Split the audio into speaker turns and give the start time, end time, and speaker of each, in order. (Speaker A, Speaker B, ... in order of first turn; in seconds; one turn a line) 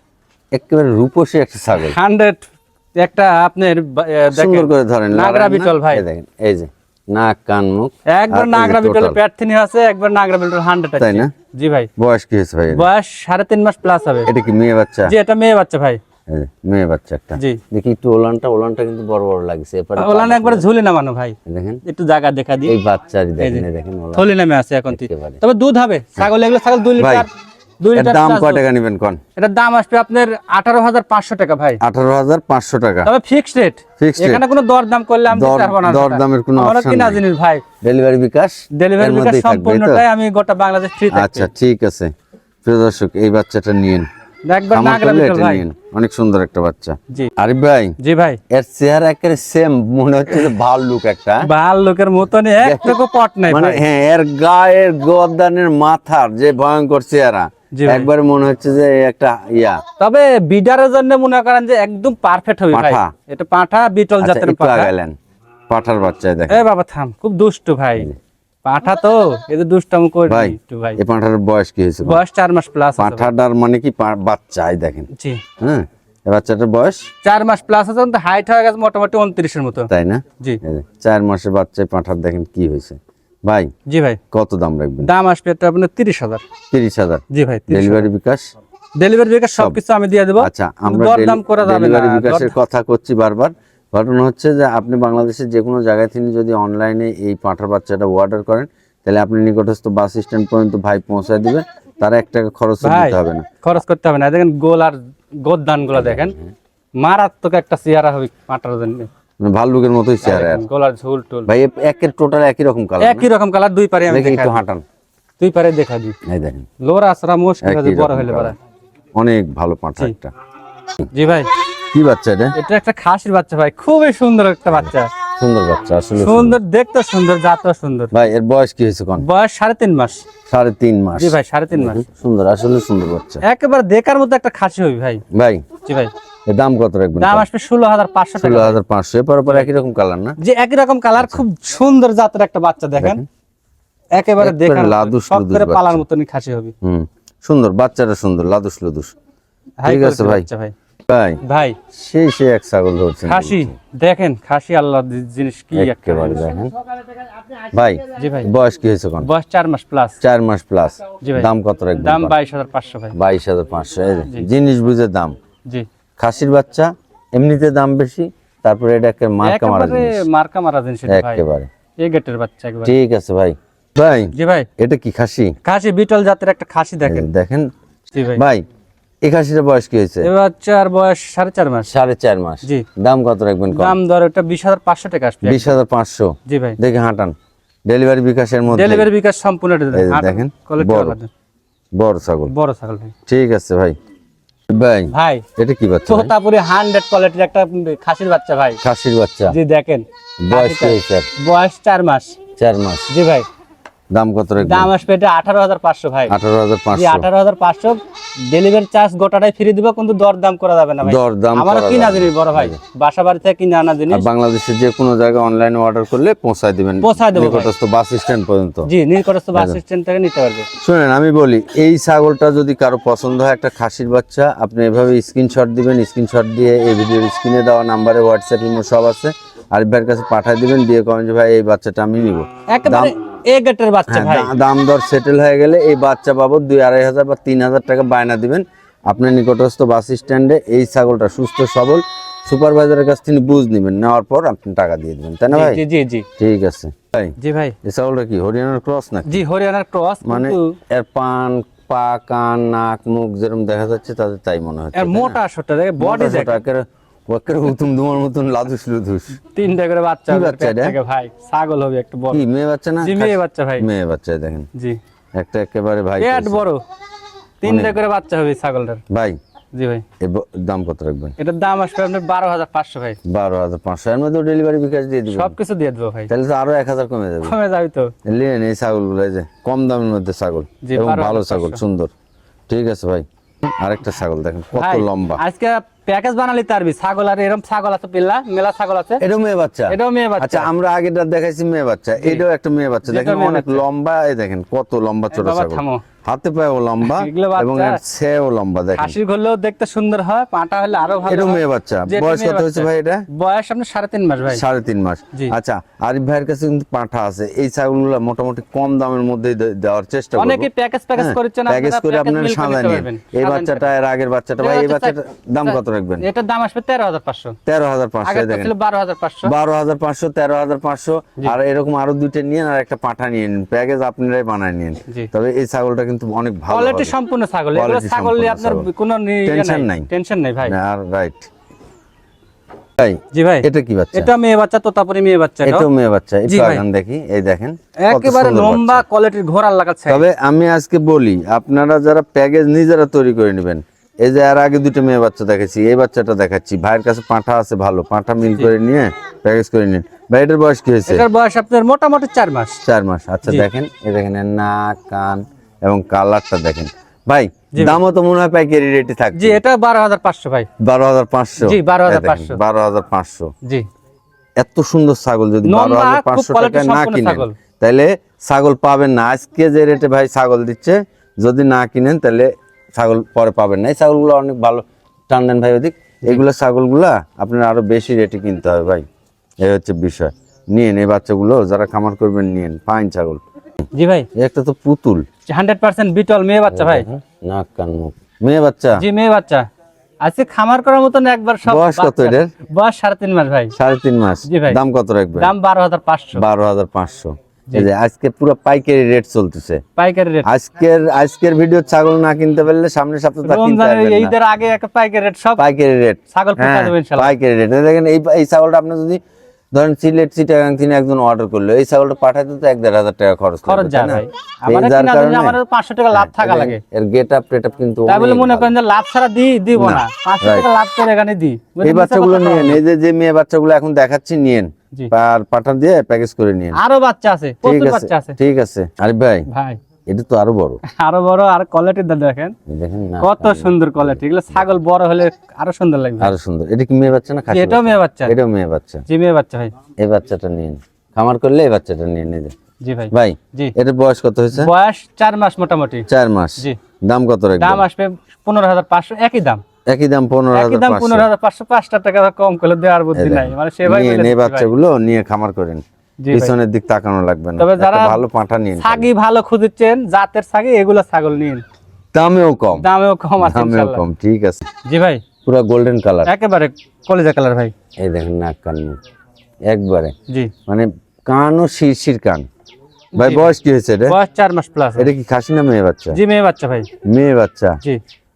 Speaker A: 0.5-2.0
Speaker B: 1.8-6.0
Speaker A: 4.3-9.2
Speaker B: 8.1-11.9
Speaker A: 11.0-11.3
Speaker A: 12.0-12.9
Speaker B: 12.7-14.3
Speaker A: 14.3-15.1
Speaker B: 15.1-16.0
Speaker A: 16.3-20.7
Speaker B: 17.4-17.6
Speaker B: 20.0-22.7
Speaker A: 21.5-21.8
Speaker A: 22.6-24.3
Speaker B: 23.4-28.6
Speaker A: 24.9-25.4
Speaker A: 27.0-27.3
Speaker A: 27.9-29.2
Speaker B: 29.4-31.8
Speaker A: 31.8-33.1
Speaker B: 33.0-37.6
Speaker A: 34.0-34.4
Speaker A: 35.3-37.2
Speaker A: 37.8-40.0
Speaker B: 38.8-41.5
Speaker A: 41.1-42.1
Speaker A: 42.6-44.1
Speaker B: 44.5-45.6
Speaker A: 44.7-48.0
Speaker B: 48.0-48.4
Speaker A: 48.5-51.5
Speaker B: 51.4-53.8
Speaker A: 52.6-53.0
Speaker A: 53.5-59.8
Speaker B: 57.8-58.1
Speaker B: 60.0-64.9
Speaker A: 62.7-63.1
Speaker A: 64.2-65.2
Speaker A: 65.7-66.7
Speaker B: 66.5-68.1
Speaker B: 68.7-71.0
Speaker A: 70.3-72.2
Speaker B: 72.0-73.3
Speaker A: 73.0-75.1
Speaker B: 75.1-75.4
Speaker A: 75.6-77.1
Speaker B: 77.2-80.6
Speaker A: 79.9-83.7
Speaker B: 83.9-84.2
Speaker A: 84.3-85.1
Speaker B: 85.0-86.4
Speaker A: 86.7-88.5
Speaker B: 87.3-88.1
Speaker B: 89.0-92.5
Speaker A: 90.4-103.5
Speaker B: 102.8-106.4
Speaker A: 105.9-106.5
Speaker B: 107.0-109.1
Speaker A: 109.4-110.6
Speaker B: 110.2-111.5
Speaker A: 111.5-113.3
Speaker B: 113.0-114.6
Speaker A: 114.1-114.8
Speaker B: 115.4-116.2
Speaker A: 116.3-116.7
Speaker B: 116.8-118.6
Speaker A: 117.6-118.5
Speaker A: 119.2-120.3
Speaker B: 121.1-121.5
Speaker A: 121.9-122.6
Speaker B: 122.6-125.1
Speaker A: 125.4-126.6
Speaker B: 126.2-128.1
Speaker A: 128.1-129.2
Speaker B: 129.2-130.2
Speaker A: 130.5-133.4
Speaker B: 131.2-132.0
Speaker B: 133.4-135.2
Speaker A: 135.3-135.7
Speaker B: 135.8-136.1
Speaker A: 136.5-137.5
Speaker B: 137.2-138.8
Speaker A: 138.4-140.4
Speaker B: 140.4-143.2
Speaker A: 143.0-143.2
Speaker B: 144.2-146.7
Speaker A: 144.4-146.0
Speaker A: 146.8-149.2
Speaker B: 149.8-150.7
Speaker A: 149.8-150.4
Speaker A: 151.1-151.4
Speaker B: 151.4-151.8
Speaker A: 151.9-153.7
Speaker B: 153.2-156.6
Speaker A: 155.7-156.7
Speaker A: 157.7-159.3
Speaker B: 158.2-158.5
Speaker B: 159.2-160.2
Speaker A: 160.2-162.3
Speaker B: 161.2-163.2
Speaker A: 163.1-165.3
Speaker A: 166.2-170.2
Speaker B: 169.4-171.4
Speaker A: 171.1-171.7
Speaker B: 172.0-172.9
Speaker A: 172.8-175.5
Speaker B: 174.3-174.7
Speaker B: 175.6-177.3
Speaker A: 177.1-177.7
Speaker B: 178.1-178.4
Speaker A: 178.3-178.6
Speaker A: 179.2-180.3
Speaker B: 180.2-181.9
Speaker A: 181.9-184.0
Speaker B: 183.7-185.8
Speaker A: 185.4-187.3
Speaker B: 186.5-186.8
Speaker A: 187.9-189.1
Speaker B: 188.7-191.3
Speaker A: 189.9-191.2
Speaker A: 191.9-192.5
Speaker B: 192.5-193.1
Speaker A: 193.3-194.0
Speaker A: 194.7-196.3
Speaker B: 195.1-195.5
Speaker B: 196.1-198.8
Speaker A: 198.8-199.6
Speaker B: 199.5-202.4
Speaker A: 200.4-201.3
Speaker A: 202.6-203.1
Speaker B: 203.1-203.5
Speaker A: 204.1-204.9
Speaker B: 204.6-206.3
Speaker A: 206.3-207.3
Speaker B: 206.9-214.3
Speaker A: 211.0-212.8
Speaker A: 214.1-218.9
Speaker B: 217.0-217.7
Speaker B: 218.9-220.7
Speaker A: 220.8-233.1
Speaker B: 232.7-234.5
Speaker A: 234.1-245.8
Speaker B: 245.5-246.3
Speaker A: 246.4-249.4
Speaker B: 247.4-247.8
Speaker B: 249.3-250.8
Speaker A: 250.2-255.4
Speaker B: 254.9-256.6
Speaker A: 256.0-259.4
Speaker B: 259.5-262.4
Speaker A: 260.3-261.0
Speaker A: 262.3-264.7
Speaker B: 263.0-263.9
Speaker A: 265.4-266.6
Speaker B: 266.2-266.8
Speaker B: 267.6-269.0
Speaker A: 267.6-268.0
Speaker A: 269.1-269.4
Speaker B: 269.8-270.0
Speaker A: 270.2-271.4
Speaker B: 271.4-273.2
Speaker A: 273.3-275.6
Speaker B: 275.3-276.3
Speaker A: 276.3-277.5
Speaker B: 277.4-278.1
Speaker A: 278.3-282.1
Speaker B: 280.8-281.8
Speaker A: 282.7-285.4
Speaker B: 284.8-289.2
Speaker A: 289.2-299.2
Speaker B: 289.9-290.7
Speaker B: 292.2-292.4
Speaker B: 293.0-293.9
Speaker B: 295.3-296.0
Speaker B: 297.0-298.0
Speaker B: 299.0-304.6
Speaker A: 301.3-303.3
Speaker A: 304.5-316.3
Speaker B: 310.4-313.9
Speaker B: 314.6-317.6
Speaker A: 317.7-318.7
Speaker B: 318.2-319.5
Speaker A: 319.4-327.1
Speaker B: 326.7-330.8
Speaker A: 327.7-328.9
Speaker A: 329.4-330.1
Speaker A: 330.6-331.5
Speaker A: 333.0-334.3
Speaker B: 333.3-335.9
Speaker A: 335.6-339.0
Speaker B: 336.5-336.8
Speaker B: 338.0-340.2
Speaker A: 340.1-351.2
Speaker B: 351.1-352.8
Speaker A: 352.9-359.6
Speaker B: 357.7-358.0
Speaker B: 359.4-360.7
Speaker A: 360.8-363.5
Speaker B: 361.6-362.6
Speaker A: 364.6-379.1
Speaker B: 365.6-367.6
Speaker A: 379.6-383.4
Speaker B: 383.9-384.3
Speaker A: 384.3-385.3
Speaker B: 385.5-387.1
Speaker A: 386.7-389.0
Speaker B: 389.0-389.7
Speaker B: 390.2-393.7
Speaker A: 391.7-392.5
Speaker A: 393.8-395.5
Speaker B: 394.5-394.8
Speaker B: 395.4-396.4
Speaker A: 396.4-399.8
Speaker B: 400.0-400.5
Speaker A: 400.4-404.3
Speaker B: 403.4-405.6
Speaker A: 405.6-409.2
Speaker B: 406.3-407.3
Speaker A: 409.7-415.6
Speaker B: 413.6-416.8
Speaker A: 416.1-418.7
Speaker B: 418.1-422.8
Speaker A: 419.8-420.7
Speaker A: 421.8-426.8
Speaker B: 426.7-428.4
Speaker A: 427.6-429.5
Speaker B: 429.5-429.8
Speaker A: 430.1-430.8
Speaker B: 430.9-432.6
Speaker A: 432.7-434.8
Speaker B: 433.2-436.3
Speaker A: 436.2-439.0
Speaker B: 437.5-438.4
Speaker B: 439.1-439.7
Speaker A: 440.0-442.5
Speaker B: 442.8-443.7
Speaker A: 443.1-444.7
Speaker B: 444.5-446.1
Speaker A: 446.1-447.8
Speaker B: 447.6-449.6
Speaker A: 449.9-451.3
Speaker B: 450.5-454.7
Speaker A: 453.1-459.1
Speaker B: 456.2-456.5
Speaker B: 457.6-458.2
Speaker B: 458.8-461.6
Speaker A: 462.1-462.9
Speaker B: 462.8-464.0
Speaker A: 463.4-464.6
Speaker B: 464.9-465.2
Speaker A: 465.4-466.3
Speaker B: 466.2-467.7
Speaker A: 468.0-469.0
Speaker A: 469.7-470.1
Speaker A: 470.7-472.5
Speaker B: 473.2-473.5
Speaker A: 473.2-474.2
Speaker B: 474.1-475.1
Speaker A: 475.0-476.2
Speaker B: 476.1-476.9
Speaker A: 477.1-477.8